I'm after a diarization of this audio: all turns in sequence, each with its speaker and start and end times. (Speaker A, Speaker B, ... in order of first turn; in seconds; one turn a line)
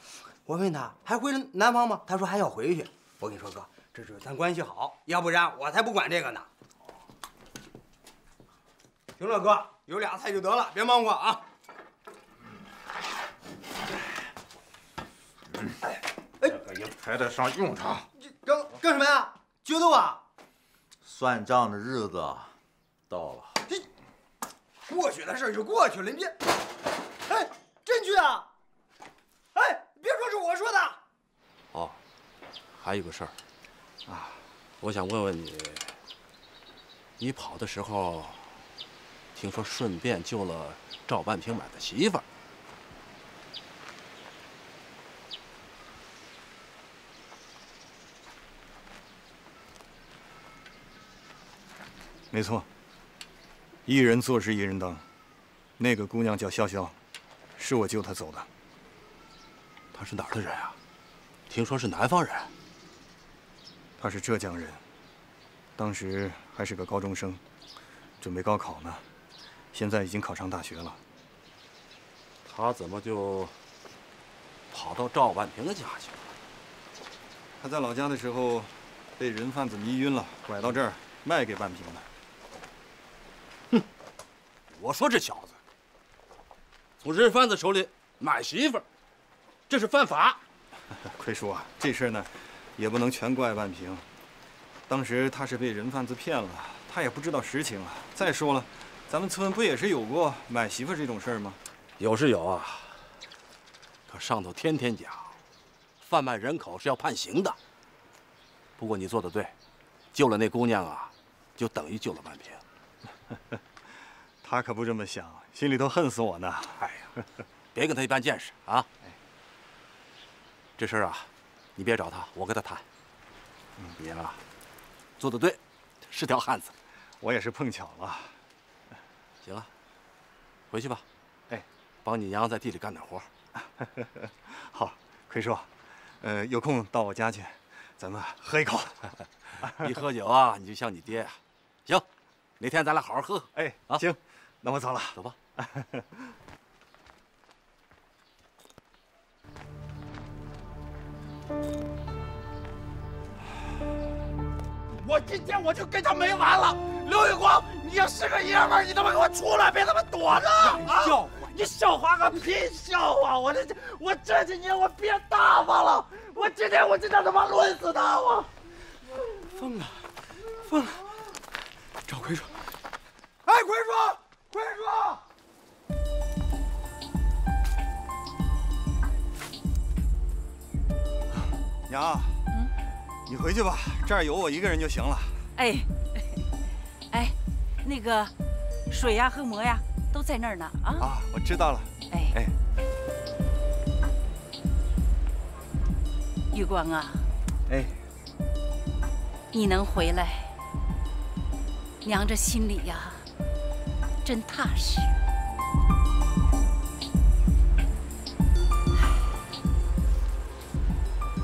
Speaker A: 0.5-6.5
Speaker A: 9.2-11.4
Speaker B: 16.5-18.1
Speaker A: 18.2-20.2
Speaker B: 21.0-22.6
Speaker B: 23.1-23.6
Speaker A: 24.9-26.4
Speaker A: 27.3-28.5
Speaker A: 29.6-31.0
Speaker C: 31.7-32.0
Speaker C: 32.8-33.4
Speaker D: 34.1-34.4
Speaker C: 34.8-35.9
Speaker C: 37.2-38.5
Speaker C: 39.4-42.2
Speaker D: 52.3-52.7
Speaker D: 53.9-55.0
Speaker D: 55.8-57.0
Speaker D: 57.6-58.5
Speaker C: 59.9-60.8
Speaker C: 61.5-62.5
Speaker D: 64.0-64.8
Speaker D: 65.8-67.4
Speaker D: 68.2-69.0
Speaker D: 69.7-71.0
Speaker C: 72.5-73.5
Speaker C: 74.7-76.3
Speaker D: 77.6-82.1
Speaker C: 84.8-85.6
Speaker C: 87.0-88.8
Speaker C: 89.7-90.4
Speaker D: 91.1-94.0
Speaker D: 94.9-101.6
Speaker C: 102.0-103.0
Speaker C: 104.1-105.4
Speaker C: 106.0-107.6
Speaker C: 108.8-109.5
Speaker C: 110.1-112.6
Speaker D: 114.4-116.9
Speaker C: 117.8-118.9
Speaker C: 120.8-122.8
Speaker C: 124.0-124.4
Speaker C: 125.2-126.7
Speaker D: 127.2-128.4
Speaker C: 129.4-129.7
Speaker C: 130.7-131.0
Speaker C: 132.1-133.3
Speaker D: 133.8-135.7
Speaker D: 136.2-139.1
Speaker C: 139.8-142.1
Speaker C: 142.6-144.1
Speaker D: 143.6-146.1
Speaker E: 155.0-168.5
Speaker A: 160.6-161.5
Speaker A: 169.5-170.1
Speaker D: 172.1-172.5
Speaker A: 173.5-175.2
Speaker D: 181.9-182.4
Speaker D: 183.3-185.4
Speaker F: 185.6-186.5
Speaker F: 187.1-188.3
Speaker F: 188.9-191.1
Speaker D: 191.0-192.6
Speaker F: 192.1-192.4
Speaker F: 196.5-197.3
Speaker D: 197.7-198.0
Speaker F: 199.5-200.6
Speaker F: 202.0-203.3
Speaker F: 204.2-205.2